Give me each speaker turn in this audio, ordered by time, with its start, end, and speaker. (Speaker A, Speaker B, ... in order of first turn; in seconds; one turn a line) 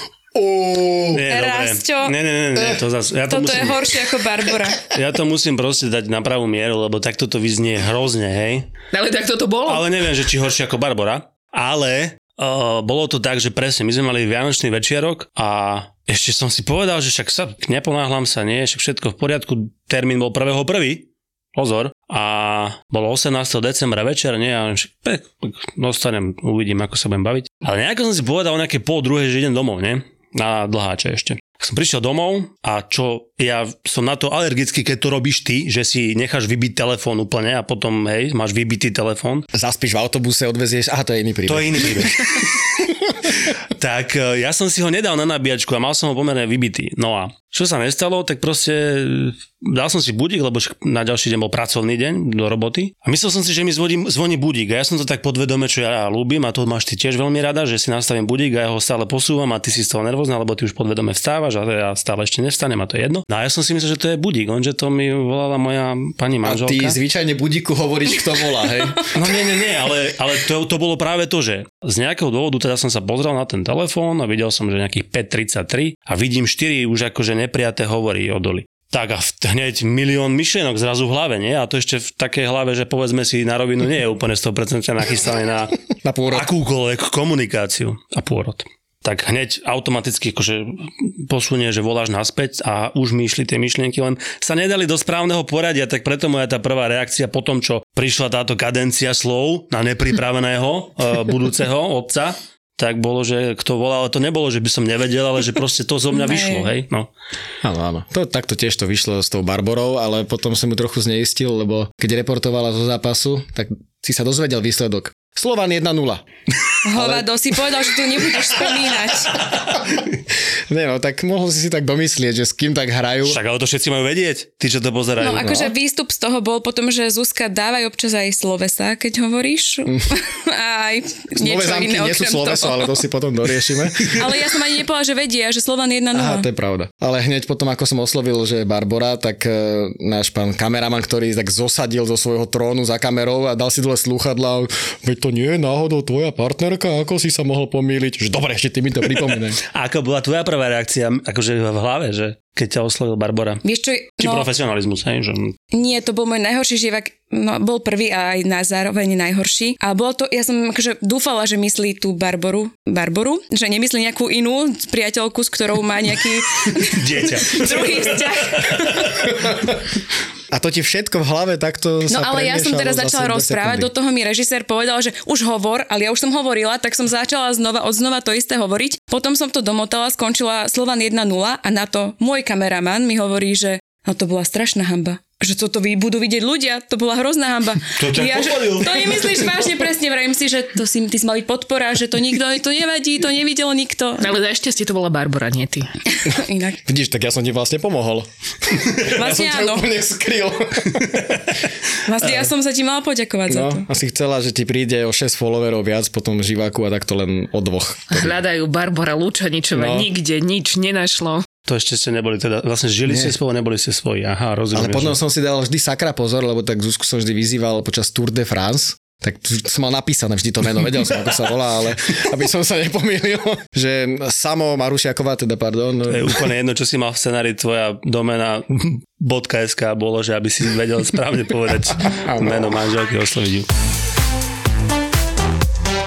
Speaker A: 0.3-1.2
Speaker B: 1.1-3.9
Speaker C: 1.3-2.1
Speaker C: 3.3-4.8
Speaker B: 4.9-8.7
Speaker D: 8.9-10.1
Speaker B: 9.7-39.5
Speaker A: 39.5-42.5
Speaker B: 41.5-67.0
Speaker A: 66.4-69.3
Speaker B: 69.1-85.8
Speaker A: 86.0-86.5
Speaker B: 86.3-107.1
Speaker C: 106.1-106.7
Speaker A: 107.6-116.2
Speaker C: 116.8-119.4
Speaker A: 116.9-117.3
Speaker A: 120.7-123.4
Speaker B: 123.2-125.7
Speaker C: 125.2-133.0
Speaker A: 131.4-134.3
Speaker C: 134.0-136.5
Speaker A: 136.1-149.6
Speaker B: 149.7-153.6
Speaker C: 153.6-154.5
Speaker B: 154.2-155.6
Speaker C: 155.7-169.3
Speaker B: 166.8-169.3
Speaker A: 170.5-173.9
Speaker C: 172.1-194.3
Speaker B: 188.0-189.8
Speaker D: 194.2-195.9
Speaker C: 196.1-196.8
Speaker A: 196.8-201.3
Speaker C: 199.0-199.9
Speaker C: 202.0-203.9
Speaker A: 203.5-208.4
Speaker D: 208.1-211.5
Speaker A: 209.7-210.1
Speaker B: 211.7-215.2
Speaker A: 213.1-213.3
Speaker A: 214.7-226.4
Speaker B: 226.1-233.7
Speaker A: 232.2-232.5